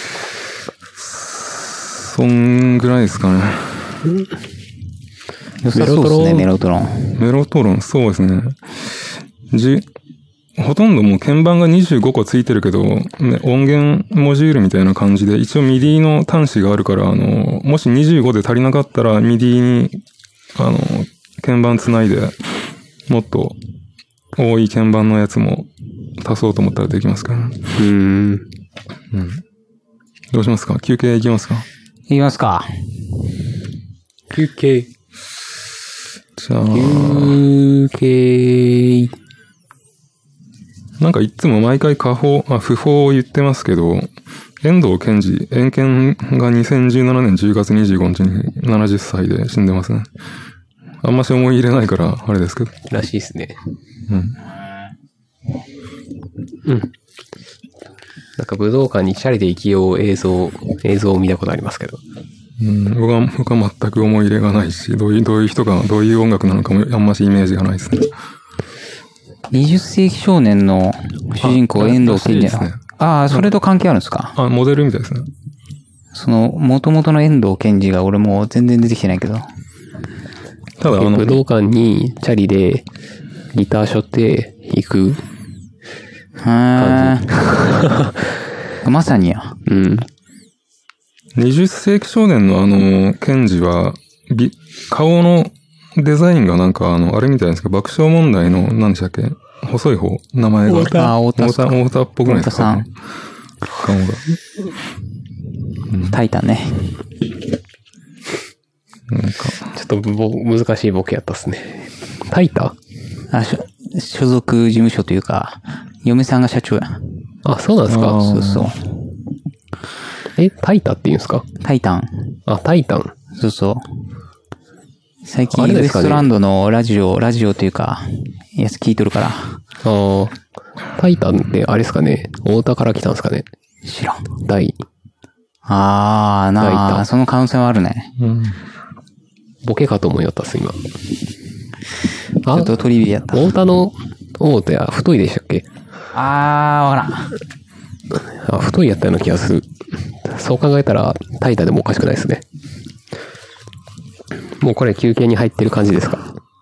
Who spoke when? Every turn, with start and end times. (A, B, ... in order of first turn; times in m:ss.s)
0:01.0-0:04.0 A
0:05.6-0:07.2 B
0:05.7-0:06.5 C
0:07.2-0:08.6 A
0:09.5-0:09.8 A
0:10.6-0:20.0 A
0:20.6-0:22.5 A
0:23.1-0:23.6 A
0:24.4-0:27.7 A
0:27.8-0:28.5 C
0:29.1-0:29.4 A
0:30.3-0:31.6 A
0:32.1-0:32.7 B
0:34.3-0:34.9 C
0:36.4-0:37.4 A
0:36.7-0:39.1 C
0:41.0-0:44.1 A
0:44.6-0:50.1 A
0:51.0-0:52.8 A
0:52.9-0:53.6 C
0:54.1-0:54.4 A
0:56.6-0:56.9 C
0:58.4-1:02.0 C
1:02.6-1:08.1 A
1:09.5-1:14.3 B
1:11.4-1:12.8 A
1:14.3-1:15.3 A
1:16.1-1:19.4 B
1:20.8-1:21.4 A
1:20.9-1:22.8 C
1:23.5-1:25.2 C
1:26.4-1:27.3 B
1:26.8-1:28.2 C
1:28.8-1:29.6 B
1:29.7-1:30.1 C
1:31.3-1:42.9 A
1:40.7-1:41.1 C
1:40.7-1:42.8 B
1:43.8-1:44.4 A
1:45.9-1:46.2 A
1:46.0-1:47.0 B
1:49.1-1:49.7 A
1:49.7-1:52.7 C
1:53.3-1:57.0 B
1:57.4-1:58.2 C
1:57.9-1:58.7 A
1:58.1-1:58.8 B
2:00.4-2:01.4 C
2:01.6-2:02.4 B
2:02.5-2:03.1 C
2:03.3-2:03.9 B
2:05.2-2:09.6 B
2:05.5-2:06.3 C
2:09.8-2:10.4 C
2:11.0-2:13.4 C
2:13.8-2:14.2 B
2:14.4-2:14.8 C
2:15.6-2:18.1 B
2:16.6-2:17.0 C
2:18.2-2:18.6 A
2:19.6-2:20.8 C
2:22.4-2:22.7 C
2:22.4-2:23.5 B
2:23.3-2:25.6 C
2:26.1-2:27.3 B
2:28.1-2:29.7 C
2:30.2-2:32.4 C
2:34.6-2:36.2 C